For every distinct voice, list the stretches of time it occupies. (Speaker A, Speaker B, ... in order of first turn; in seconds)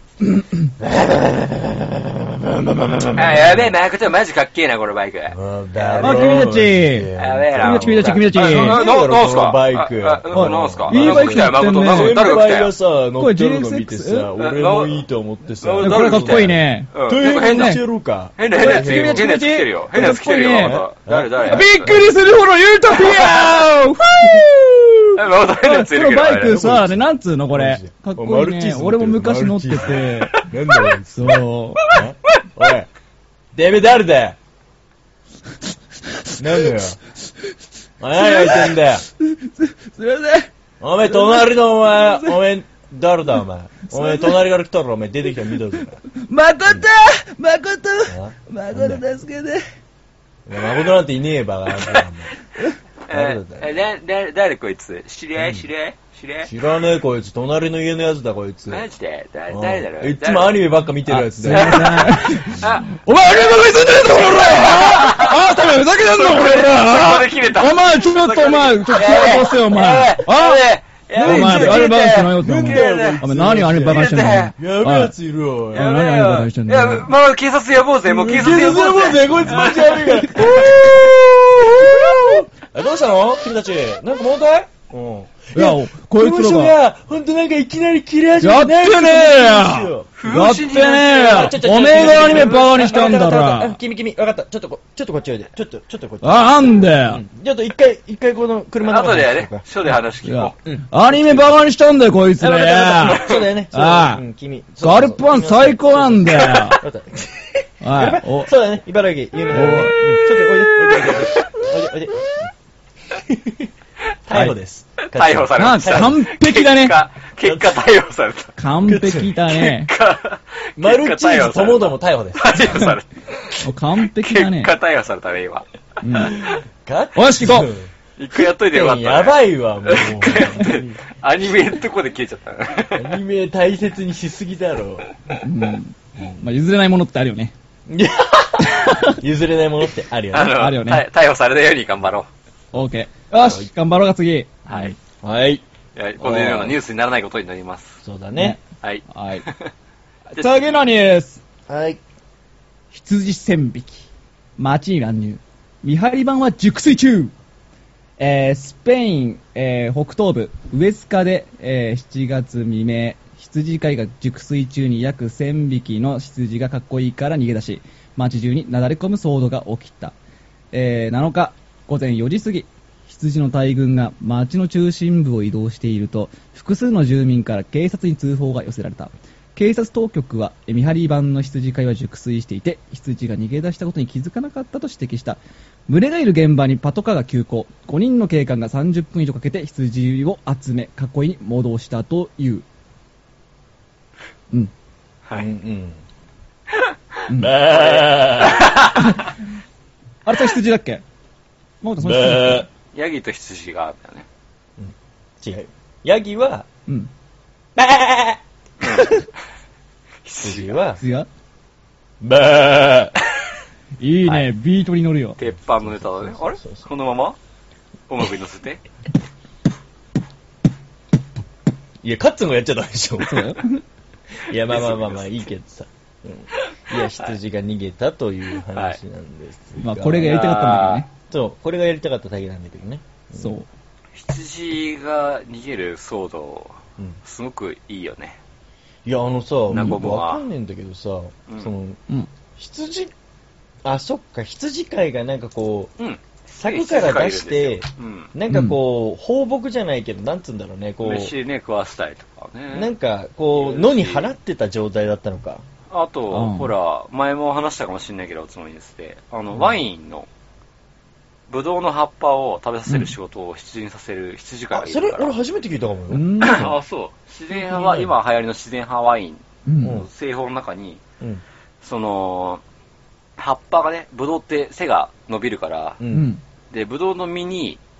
Speaker A: 0.2-0.7, 6.0-8.8, 10.3-12.5, 13.2-14.3, 15.8-17.8, 18.5-20.8, 21.4-30.4, 31.1-31.8, 36.0-36.8, 38.1-40.5, 41.0-42.4, 43.9-44.5, 46.1-49.6, 61.1-70.6, 71.2-75.1, 75.7-77.1, 79.4-81.1, 81.8-82.0, 85.5-86.8, 88.4-93.8, 96.2-97.2, 100.2-104.2, 104.8-106.8, 107.8-108.5, 109.5-111.2, 114.3-114.6, 115.6-117.0, 118.6-119.9, 122.6-122.9, 123.6-124.7, 126.0-126.5, 127.2-127.7, 135.4-137.5, 138.6-139.2, 140.4-141.0, 142.7-144.9, 148.4-149.4, 150.3-151.4, 152.9-157.3, 158.2-170.2, 170.7-192.7, 197.3-197.6, 199.0-199.3, 200.2-201.0, 201.8-202.7, 211.0-211.3, 214.0-215.4, 223.2-223.8, 229.8-231.1, 233.3-233.7, 239.7-240.1, 248.5-248.8, 256.3-256.7, 262.9-263.1, 266.1-266.7, 269.6-270.0, 276.1-276.4
Speaker B: 0.8-3.8, 5.3-19.3, 20.0-22.0, 26.4-32.9, 33.5-34.4, 36.4-37.0, 38.0-39.0, 40.8-46.0, 48.1-49.0, 50.5-52.4, 53.1-53.8, 55.4-55.6, 56.5-58.9, 59.5-62.7, 71.2-75.9, 78.0-90.1, 91.1-99.7, 100.7-101.5, 102.4-112.5, 113.1-113.7, 114.2-116.2, 117.4-117.8, 118.8-119.4, 120.8-122.9, 126.1-127.9, 128.4-131.0, 132.9-135.1, 137.9-140.6, 143.4-143.7, 145.2-145.6, 146.2-146.8, 148.0-148.6, 151.7-152.0, 195.4-196.0, 197.3-198.9, 202.0-202.7, 204.8-206.7, 207.8-208.4, 210.4-211.0, 212.2-213.2, 215.8-216.9, 222.0-223.6, 224.4-230.5, 231.3-233.6, 239.1-242.0, 242.6-243.1, 243.8-245.9, 246.5-251.3, 252.7-255.6, 264.7-266.7, 267.5-268.1, 269.8-270.1, 276.0-276.3
Speaker C: 3.1-6.5, 7.2-12.7, 14.4-15.1, 15.6-17.8, 18.4-22.0, 25.1-26.6, 53.1-56.5, 58.7-60.6, 61.5-65.4, 66.1-73.3, 73.8-74.5, 75.7-81.0, 90.2-93.2, 98.8-100.6, 115.1-118.6, 119.5-123.1, 124.1-125.7, 128.2-133.2, 140.3-142.3, 144.7-144.9, 145.9-148.0, 148.8-149.7, 150.3-150.7, 195.2-195.5, 197.7-199.2, 202.9-204.2, 208.8-209.2, 210.2-210.8, 215.4-217.4, 218.1-218.8, 224.7-225.5, 226.6-227.4, 228.7-229.0, 230.2-231.1, 234.1-238.4, 239.7-240.4, 246.0-248.3, 251.0-252.9, 253.5-254.3, 255.9-260.3, 261.5-265.4, 266.4-271.0, 271.8-272.6, 273.4-276.0, 276.7-277.8